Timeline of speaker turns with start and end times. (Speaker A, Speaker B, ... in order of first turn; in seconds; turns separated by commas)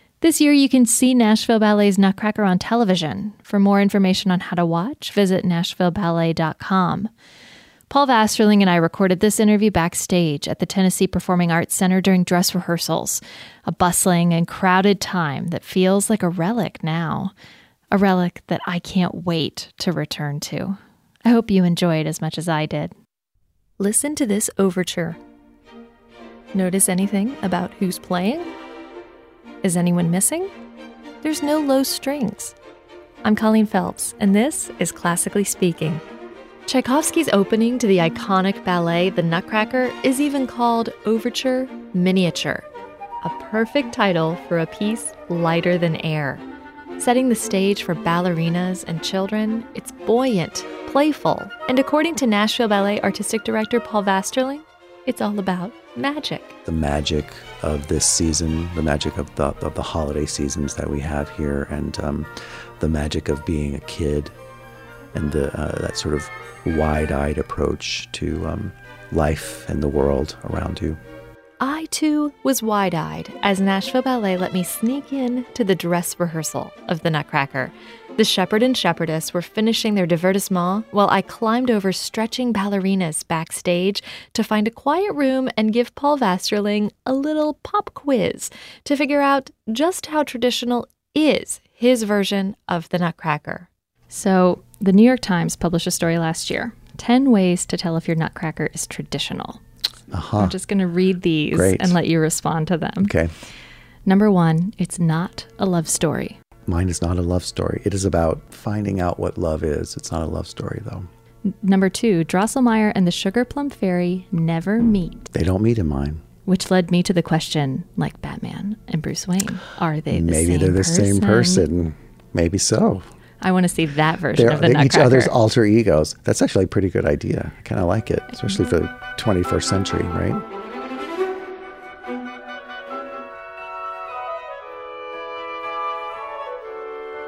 Speaker A: 0.2-7.1, Speaker A: 7.9-17.3, Speaker A: 17.9-22.9, Speaker A: 23.8-25.2, Speaker A: 26.5-28.5, Speaker A: 29.6-30.5, Speaker A: 31.2-32.6, Speaker A: 33.2-36.0, Speaker A: 36.7-42.7, Speaker A: 43.2-46.4, Speaker A: 47.0-56.6, Speaker B: 56.6-64.3, Speaker B: 65.1-71.0, Speaker A: 71.6-99.6, Speaker B: 100.1-100.6, Speaker A: 100.4-103.1, Speaker B: 101.5-102.0, Speaker B: 103.0-103.3, Speaker A: 104.1-106.4, Speaker B: 106.7-111.1, Speaker A: 111.5-115.3, Speaker B: 115.3-116.2, Speaker A: 116.5-121.7, Speaker B: 120.1-123.1, Speaker A: 123.4-125.3, Speaker B: 124.3-130.4